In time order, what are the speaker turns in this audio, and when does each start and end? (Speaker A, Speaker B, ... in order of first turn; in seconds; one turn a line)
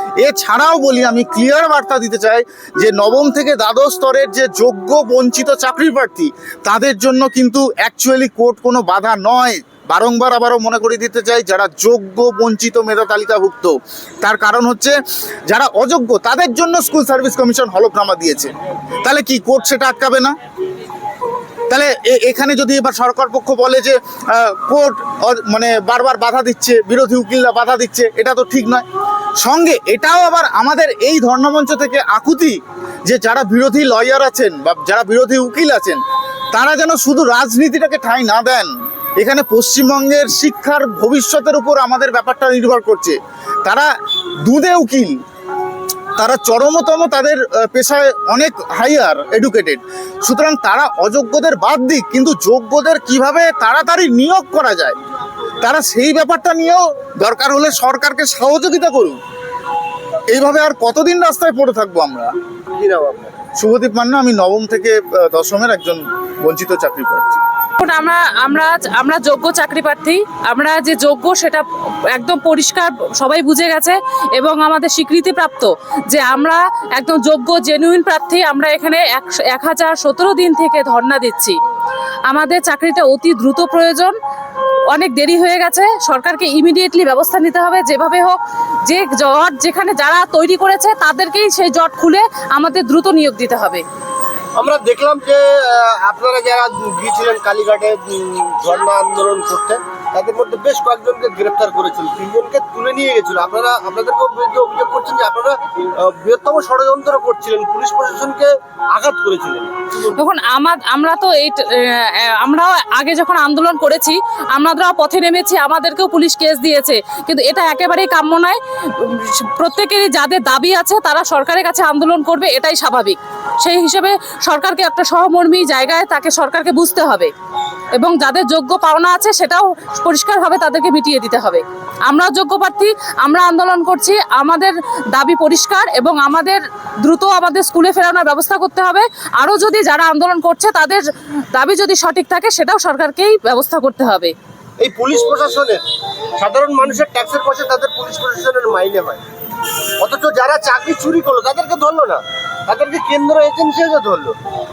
Speaker A: 0.2-14.9
Speaker A: 15.5-20.3
Speaker A: 21.7-28.8
Speaker A: 29.4-36.0
Speaker A: 36.5-43.9
Speaker A: 44.4-45.2
Speaker A: 46.2-55.0
Speaker A: 55.6-59.2
Speaker A: 60.3-62.3
Speaker B: 62.7-63.4
Speaker A: 63.6-67.4
Speaker C: 67.8-81.6
Speaker C: 82.3-84.1
Speaker C: 84.9-93.8
Speaker B: 94.5-110.1
Speaker C: 110.1-127.3
Speaker C: 128.0-144.3
Speaker B: 144.8-145.8
Speaker B: 146.4-149.2
Speaker B: 150.0-154.4